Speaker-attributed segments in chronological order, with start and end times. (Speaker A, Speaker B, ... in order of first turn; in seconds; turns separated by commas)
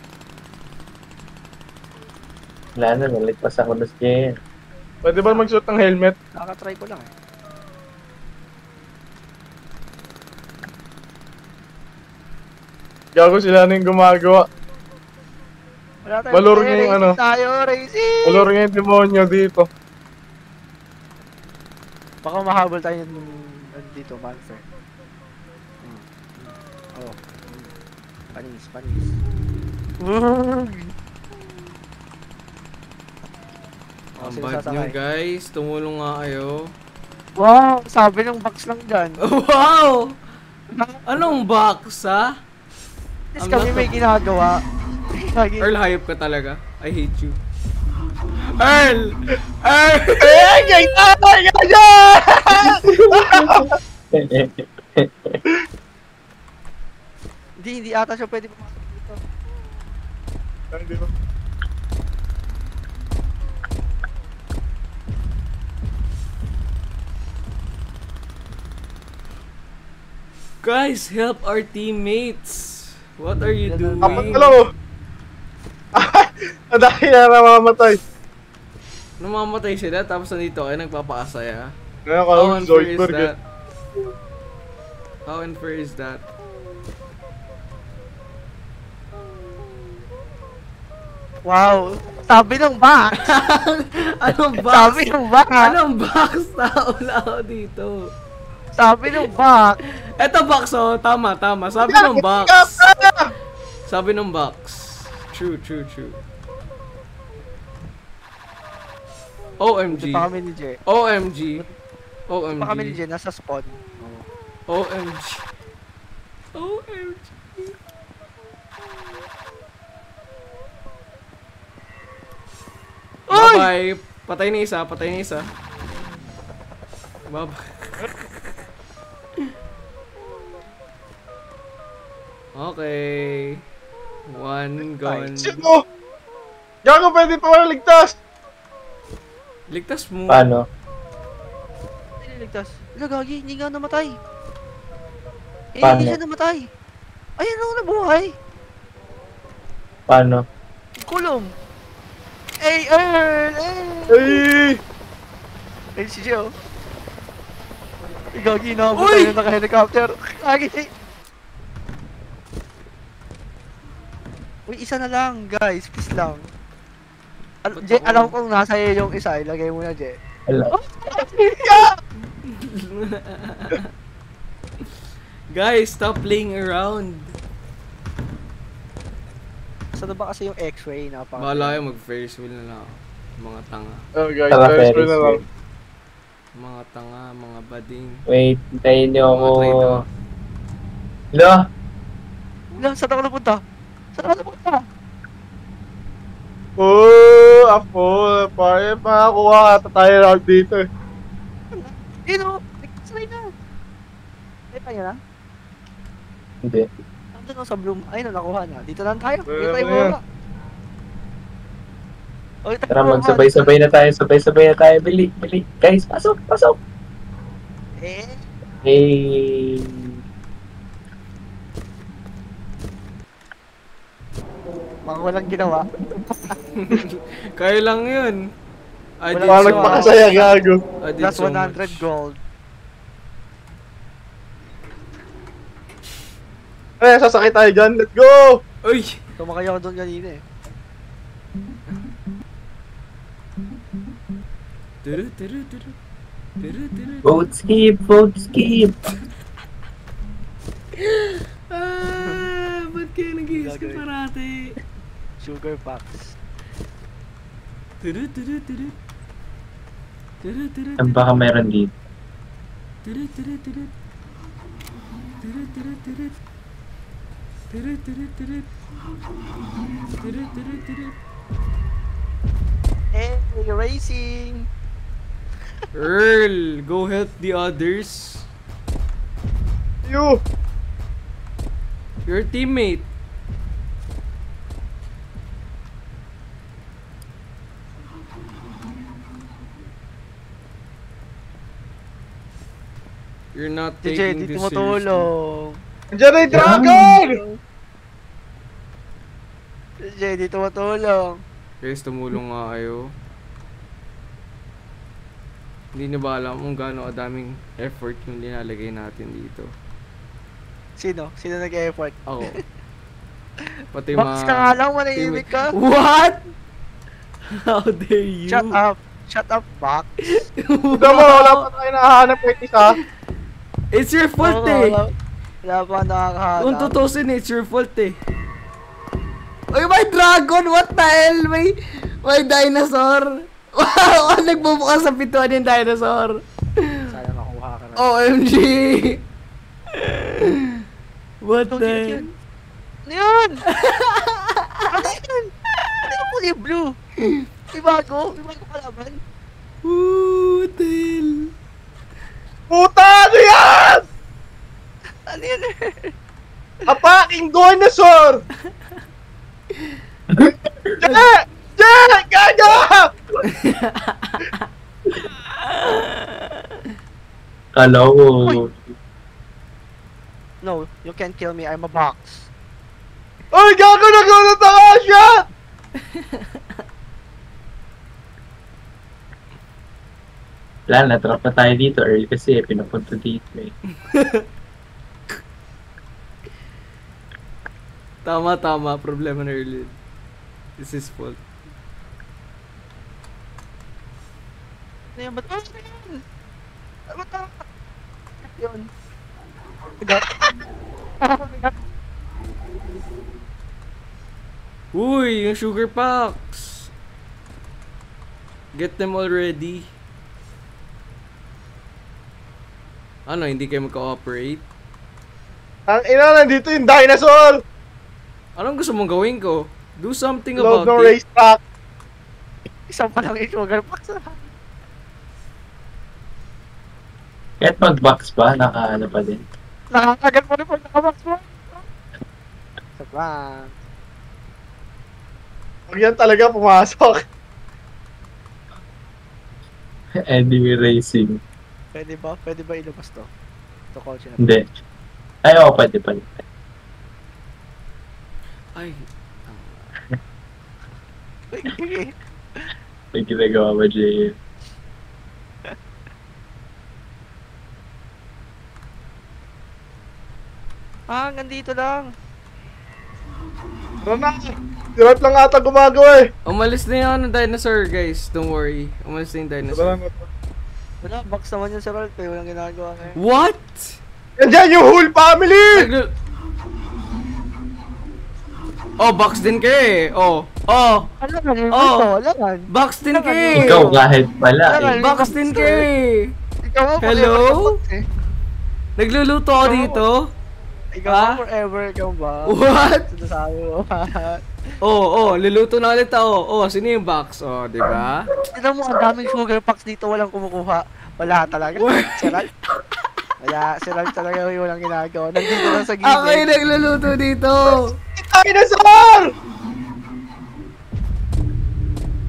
Speaker A: 2.8-4.3, Speaker B: 5.0-6.1, Speaker C: 5.2-5.5, Speaker C: 6.3-7.1, Speaker B: 13.2-14.4, Speaker C: 16.0-18.5, Speaker B: 16.3-17.2, Speaker B: 18.2-19.7, Speaker C: 22.2-24.6, Speaker C: 25.8-27.7, Speaker C: 28.3-29.2, Speaker C: 30.0-30.9, Speaker C: 34.2-34.9, Speaker D: 34.2-36.7, Speaker C: 37.4-39.2, Speaker D: 39.2-40.2, Speaker C: 40.7-41.4, Speaker D: 41.1-42.3, Speaker C: 43.4-44.6, Speaker D: 43.4-44.0, Speaker C: 45.2-45.7, Speaker D: 45.6-47.4, Speaker D: 48.6-50.8, Speaker B: 50.2-53.7, Speaker A: 52.6-55.4, Speaker C: 57.6-59.2, Speaker B: 60.7-61.1, Speaker D: 70.6-74.5, Speaker C: 73.6-74.5, Speaker B: 74.0-74.7, Speaker B: 76.0-78.0, Speaker D: 79.2-81.7, Speaker B: 82.0-83.3, Speaker D: 82.3-83.4, Speaker D: 85.2-86.2, Speaker C: 91.5-93.3, Speaker D: 93.2-98.1, Speaker C: 94.7-95.7, Speaker C: 98.8-99.8, Speaker D: 100.2-102.9, Speaker B: 101.8-103.3, Speaker D: 103.9-106.2, Speaker D: 109.6-110.3, Speaker C: 109.9-110.8, Speaker D: 110.8-111.6, Speaker D: 112.3-113.0, Speaker C: 112.5-114.2, Speaker D: 114.7-115.5, Speaker D: 116.5-117.7, Speaker C: 123.3-123.7, Speaker D: 123.3-125.5, Speaker D: 127.3-128.0, Speaker D: 132.5-133.6, Speaker D: 134.3-135.7, Speaker B: 135.3-135.8, Speaker B: 136.8-138.1, Speaker D: 139.7-140.4, Speaker A: 140.3-140.7, Speaker C: 142.2-144.2, Speaker C: 145.7-146.7, Speaker A: 145.8-146.2, Speaker C: 147.4-148.4, Speaker A: 150.1-150.4, Speaker C: 151.0-151.5, Speaker C: 152.6-154.4, Speaker B: 154.1-154.8, Speaker C: 155.9-156.5, Speaker C: 158.3-160.9, Speaker D: 158.9-159.3, Speaker C: 164.7-166.5, Speaker C: 167.6-170.2, Speaker D: 167.7-168.3, Speaker A: 170.5-170.7, Speaker C: 170.7-171.9, Speaker B: 171.6-171.9, Speaker D: 172.4-173.9, Speaker D: 175.5-177.3, Speaker C: 179.9-181.8, Speaker D: 181.4-184.1, Speaker B: 184.2-185.4, Speaker A: 184.5-185.4, Speaker D: 186.5-188.2, Speaker A: 188.3-190.0, Speaker D: 189.3-190.0, Speaker A: 191.3-191.6, Speaker C: 192.7-193.6, Speaker C: 194.1-194.8, Speaker B: 196.8-200.8, Speaker C: 201.7-203.5, Speaker C: 204.7-205.2, Speaker A: 206.6-206.9, Speaker C: 207.3-210.2, Speaker B: 209.5-210.2, Speaker C: 212.6-213.7, Speaker A: 212.9-216.8, Speaker C: 218.0-218.4, Speaker A: 218.8-220.1, Speaker C: 225.1-226.6, Speaker D: 226.7-228.4, Speaker D: 229.2-230.5, Speaker C: 229.3-230.6, Speaker B: 229.5-230.8, Speaker D: 231.0-232.0, Speaker C: 231.2-232.4, Speaker B: 237.0-238.6, Speaker D: 238.8-239.2, Speaker C: 239.4-240.4, Speaker D: 245.0-245.9, Speaker D: 246.6-247.2, Speaker A: 247.2-249.0, Speaker D: 251.0-254.8, Speaker C: 252.2-252.5, Speaker C: 253.5-254.0, Speaker C: 255.4-256.4, Speaker D: 258.0-258.9, Speaker D: 260.4-261.1, Speaker A: 261.0-261.9, Speaker D: 263.0-263.9, Speaker D: 265.4-266.3, Speaker D: 267.7-268.7, Speaker D: 270.2-271.1, Speaker C: 273.1-274.7, Speaker D: 275.9-278.5, Speaker B: 280.0-280.4, Speaker D: 282.2-283.1, Speaker D: 293.5-295.3, Speaker C: 294.0-295.8, Speaker B: 296.1-297.4, Speaker A: 296.5-297.2, Speaker C: 297.3-297.6, Speaker C: 300.0-301.4, Speaker D: 301.8-303.1, Speaker D: 305.9-309.7, Speaker C: 311.0-312.6, Speaker D: 312.3-312.6, Speaker D: 313.9-316.4, Speaker C: 314.2-315.7, Speaker D: 317.5-318.8, Speaker C: 318.5-320.4, Speaker D: 320.4-321.7, Speaker B: 320.9-323.0, Speaker D: 323.9-325.0, Speaker C: 324.4-325.1, Speaker C: 325.6-326.9, Speaker D: 326.6-328.2, Speaker D: 329.7-337.1, Speaker C: 334.1-334.7, Speaker C: 337.1-338.1, Speaker D: 338.0-339.2, Speaker D: 339.9-340.8, Speaker D: 341.4-342.3, Speaker C: 341.7-342.3, Speaker C: 343.1-343.6, Speaker D: 343.7-344.9, Speaker C: 344.9-346.9, Speaker C: 347.7-349.2, Speaker D: 349.8-351.5, Speaker B: 352.7-354.0, Speaker C: 355.3-356.1, Speaker B: 356.9-358.4, Speaker A: 360.3-361.2, Speaker B: 361.0-363.1, Speaker D: 363.4-364.6, Speaker D: 365.6-366.6, Speaker A: 367.7-368.8, Speaker C: 370.6-372.5, Speaker B: 373.5-375.4, Speaker D: 376.1-376.6, Speaker A: 380.9-383.7, Speaker D: 384.1-384.4, Speaker D: 388.2-389.9, Speaker D: 390.8-391.4, Speaker C: 395.1-396.2, Speaker C: 397.1-397.6, Speaker C: 398.4-398.9, Speaker C: 400.0-400.4, Speaker C: 401.2-401.7, Speaker D: 404.9-406.9, Speaker D: 408.8-409.9, Speaker D: 413.3-414.6, Speaker B: 415.9-417.6, Speaker D: 418.6-421.2, Speaker B: 420.6-421.6, Speaker C: 422.9-424.5, Speaker A: 427.6-429.4, Speaker C: 429.9-431.8, Speaker C: 433.0-433.7, Speaker B: 435.9-437.2, Speaker A: 440.2-441.4, Speaker C: 441.9-443.3, Speaker C: 443.9-444.5, Speaker A: 444.4-444.6, Speaker A: 445.4-446.4, Speaker D: 448.8-450.0, Speaker C: 451.5-452.7, Speaker A: 453.1-454.4, Speaker C: 461.1-462.1, Speaker B: 464.0-466.3, Speaker D: 466.4-470.0, Speaker B: 469.7-470.3, Speaker C: 471.0-473.2, Speaker D: 473.1-474.0, Speaker B: 474.4-475.9, Speaker D: 475.7-476.1, Speaker D: 479.0-481.1, Speaker C: 481.2-484.0, Speaker D: 481.7-482.1, Speaker D: 482.7-483.9, Speaker A: 483.6-484.9, Speaker C: 484.6-485.9, Speaker D: 485.0-486.3, Speaker C: 486.6-488.0, Speaker D: 487.0-487.7, Speaker D: 489.0-490.3, Speaker C: 489.6-490.0, Speaker C: 490.9-492.5, Speaker D: 491.1-491.4, Speaker D: 492.4-493.1, Speaker C: 493.1-494.4, Speaker D: 494.8-498.3, Speaker C: 498.5-502.5, Speaker D: 501.8-502.4, Speaker C: 503.4-506.5, Speaker D: 505.4-508.0, Speaker B: 507.7-509.3